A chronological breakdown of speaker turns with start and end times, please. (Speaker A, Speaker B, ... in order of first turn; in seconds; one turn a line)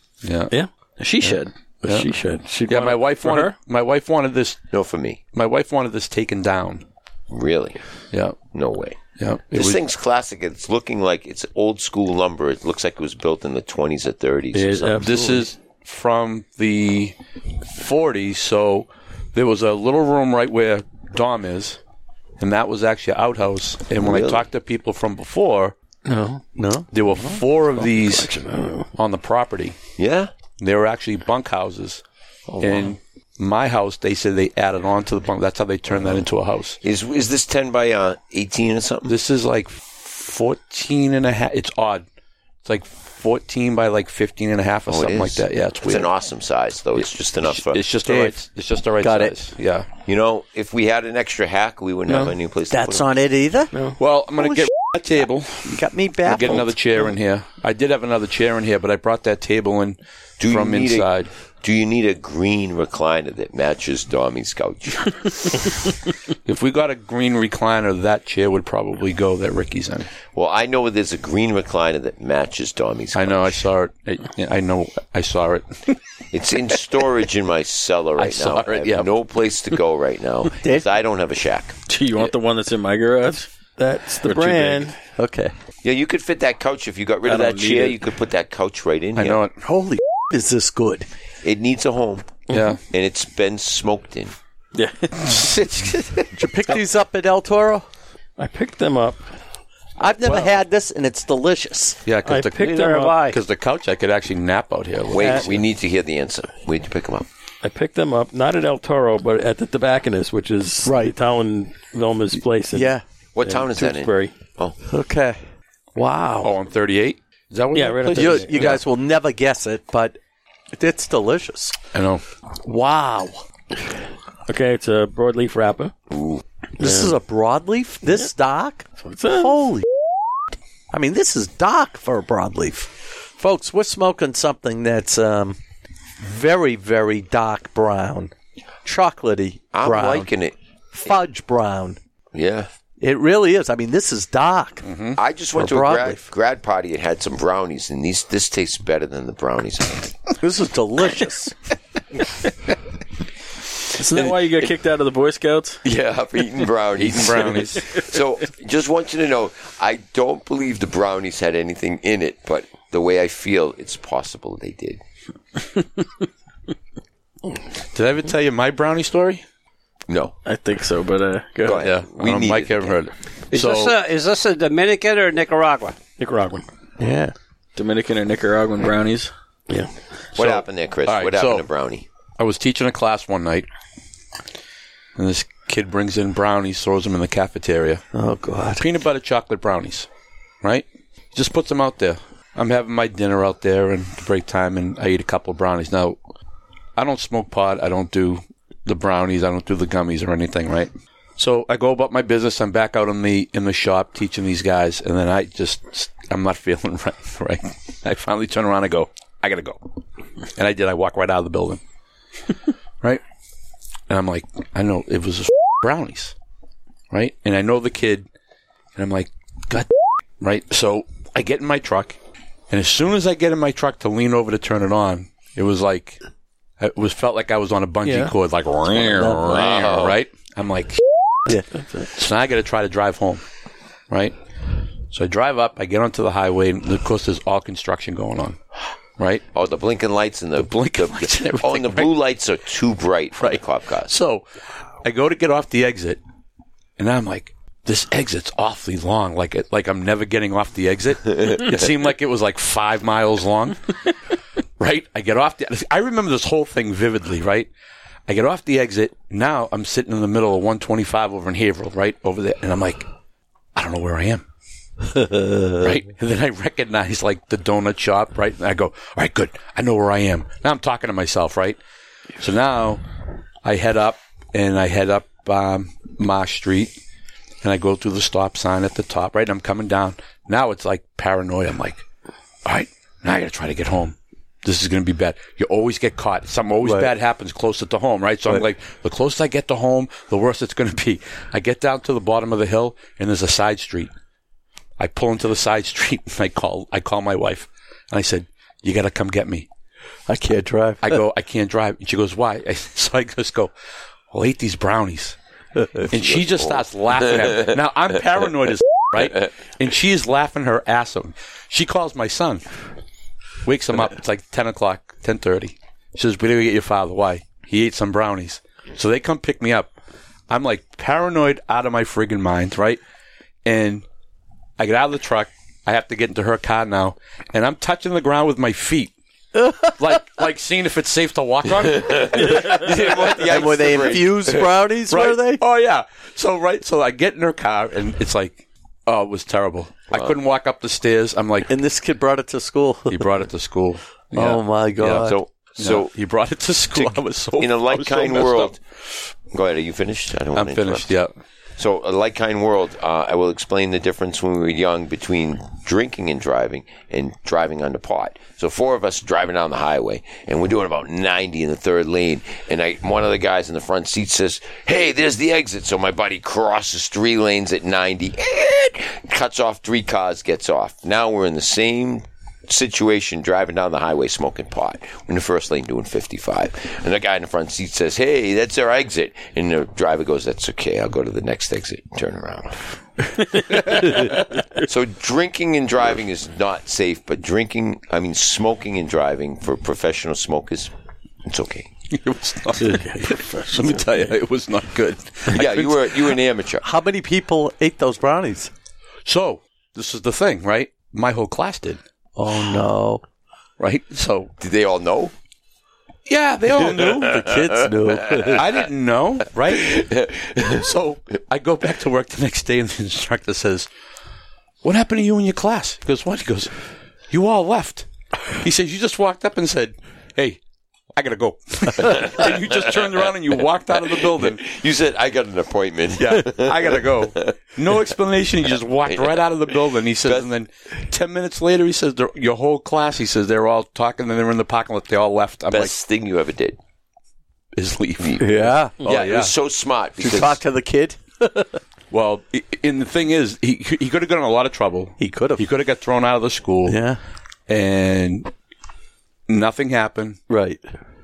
Speaker A: 0.2-0.5
Speaker B: 1.0-1.5
Speaker A: 1.2-2.1
Speaker C: 1.8-3.5
Speaker A: 2.7-4.6
Speaker D: 4.7-5.2
Speaker A: 5.3-6.8
Speaker D: 7.3-7.8
Speaker A: 8.1-8.4
Speaker D: 8.5-9.0
Speaker A: 9.2-9.8
Speaker D: 9.5-15.3
Speaker C: 14.5-15.4
Speaker A: 15.0-17.1
Speaker A: 17.7-21.8
Speaker A: 22.4-25.7
Speaker D: 24.0-24.4
Speaker C: 26.1-26.4
Speaker E: 26.6-27.3
Speaker A: 26.9-28.3
Speaker C: 27.8-28.9
Speaker A: 28.9-29.8
Speaker D: 30.0-30.3
Speaker A: 30.6-32.0
Speaker D: 32.5-32.8
Speaker A: 32.6-36.8
Speaker D: 35.9-36.2
Speaker D: 36.8-39.1
Speaker A: 39.1-42.0
Speaker A: 42.6-46.1
Speaker D: 44.9-47.8
Speaker A: 47.0-49.9
Speaker E: 48.0-48.4
Speaker E: 49.0-49.3
Speaker D: 50.0-53.1
Speaker C: 52.1-52.3
Speaker E: 52.7-53.7
Speaker C: 53.7-54.0
Speaker A: 54.0-60.0
Speaker E: 54.4-54.6
Speaker E: 55.6-56.7
Speaker D: 60.4-61.1
Speaker A: 60.5-61.3
Speaker D: 61.6-65.7
Speaker A: 66.5-70.1
Speaker D: 70.3-73.6
Speaker A: 73.1-76.0
Speaker D: 76.3-81.8
Speaker A: 78.2-79.1
Speaker E: 80.6-80.9
Speaker B: 81.9-83.5
Speaker C: 83.6-84.9
Speaker B: 84.2-84.9
Speaker E: 85.2-85.5
Speaker D: 85.8-89.4
Speaker B: 87.2-88.0
Speaker A: 89.2-89.6
Speaker E: 89.6-91.1
Speaker D: 91.4-92.4
Speaker C: 92.5-92.8
Speaker A: 92.5-92.8
Speaker D: 92.9-94.3
Speaker C: 94.7-95.3
Speaker A: 95.2-96.4
Speaker E: 96.3-97.8
Speaker C: 98.4-99.2
Speaker E: 100.0-102.0
Speaker A: 102.0-105.6
Speaker C: 102.2-103.2
Speaker F: 102.6-103.4
Speaker D: 105.1-107.3
Speaker C: 107.6-114.3
Speaker E: 110.8-111.1
Speaker E: 112.7-113.0
Speaker D: 113.3-114.8
Speaker E: 114.8-115.4
Speaker E: 116.0-116.5
Speaker A: 116.4-118.8
Speaker C: 117.7-118.7
Speaker E: 118.1-120.2
Speaker E: 120.7-121.8
Speaker A: 121.9-122.2
Speaker E: 122.6-123.4
Speaker C: 124.5-125.9
Speaker D: 126.1-126.4
Speaker E: 126.8-129.8
Speaker C: 126.8-127.1
Speaker C: 129.0-129.7
Speaker E: 130.9-135.6
Speaker E: 136.2-138.3
Speaker E: 138.8-140.3
Speaker D: 139.7-140.6
Speaker E: 140.9-142.0
Speaker D: 142.3-142.7
Speaker E: 143.0-144.9
Speaker A: 144.8-145.2
Speaker D: 145.2-150.2
Speaker E: 145.5-146.3
Speaker E: 150.4-151.5
Speaker B: 153.9-155.8
Speaker D: 155.8-165.0
Speaker A: 156.9-157.9
Speaker A: 167.9-169.4
Speaker D: 170.1-170.3
Speaker C: 170.5-171.7
Speaker B: 170.5-171.3
Speaker D: 171.6-173.0
Speaker A: 171.7-173.9
Speaker F: 173.5-176.0
Speaker C: 176.2-176.7
Speaker E: 177.0-177.3
Speaker B: 177.8-179.3
Speaker A: 180.3-181.7
Speaker D: 180.3-182.1
Speaker A: 182.4-183.7
Speaker A: 185.2-188.0
Speaker E: 188.1-188.8
Speaker A: 188.8-190.1
Speaker A: 190.6-196.2
Speaker A: 196.9-209.8
Speaker A: 210.6-211.8
Speaker A: 214.1-216.3
Speaker A: 217.1-218.3
Speaker A: 218.9-219.9
Speaker A: 220.4-222.2
Speaker A: 222.7-226.2
Speaker A: 226.8-231.0
Speaker C: 228.0-228.3
Speaker E: 229.1-229.5
Speaker D: 229.3-230.2
Speaker C: 231.7-232.1
Speaker A: 232.1-233.4
Speaker A: 234.1-234.3
Speaker A: 235.1-238.6
Speaker A: 239.2-239.4
Speaker D: 239.5-244.1
Speaker A: 240.6-242.1
Speaker A: 243.3-244.4
Speaker A: 245.0-246.2
Speaker A: 247.0-254.1
Speaker A: 254.8-257.7
Speaker A: 258.3-263.0
Speaker A: 263.7-264.4
Speaker E: 265.1-265.7
Speaker A: 265.7-271.8
Speaker A: 272.4-273.0
Speaker A: 273.6-277.0
Speaker A: 277.6-282.0
Speaker A: 282.6-294.1
Speaker E: 286.8-287.1
Speaker A: 295.0-299.7
Speaker E: 300.3-301.2
Speaker A: 301.0-303.7
Speaker A: 304.3-305.4
Speaker E: 305.8-306.1
Speaker A: 306.1-312.6
Speaker D: 306.1-307.7
Speaker A: 313.6-319.9
Speaker A: 320.5-323.0
Speaker A: 323.6-324.0
Speaker A: 324.8-329.1
Speaker E: 329.6-329.9
Speaker A: 329.9-333.6
Speaker D: 331.8-334.7
Speaker E: 332.6-335.6
Speaker A: 335.1-341.7
Speaker E: 341.7-343.3
Speaker A: 343.1-348.8
Speaker E: 344.3-345.4
Speaker D: 345.1-346.1
Speaker D: 347.6-348.8
Speaker D: 349.5-351.1
Speaker A: 350.5-351.3
Speaker D: 351.8-390.9
Speaker C: 383.5-384.0
Speaker D: 391.4-391.9
Speaker A: 392.1-396.4
Speaker C: 392.8-394.3
Speaker D: 395.5-396.8
Speaker E: 396.8-398.7
Speaker A: 399.2-402.0
Speaker E: 402.4-403.2
Speaker A: 403.8-404.5
Speaker D: 404.6-405.3
Speaker A: 406.2-407.4
Speaker D: 406.9-407.6
Speaker E: 407.2-408.6
Speaker D: 408.1-408.6
Speaker A: 408.4-413.9
Speaker D: 409.7-410.8
Speaker A: 414.8-416.7
Speaker A: 417.3-420.6
Speaker A: 421.1-424.6
Speaker D: 421.9-423.3
Speaker D: 423.9-427.6
Speaker A: 426.2-435.9
Speaker D: 429.1-429.4
Speaker D: 430.2-430.5
Speaker D: 435.7-436.8
Speaker A: 437.7-439.5
Speaker D: 438.2-438.5
Speaker E: 438.4-439.0
Speaker D: 439.0-440.6
Speaker E: 440.2-441.8
Speaker A: 442.1-447.0
Speaker E: 445.2-445.6
Speaker E: 446.9-447.2
Speaker A: 447.7-448.5
Speaker A: 449.5-450.4
Speaker E: 450.5-450.8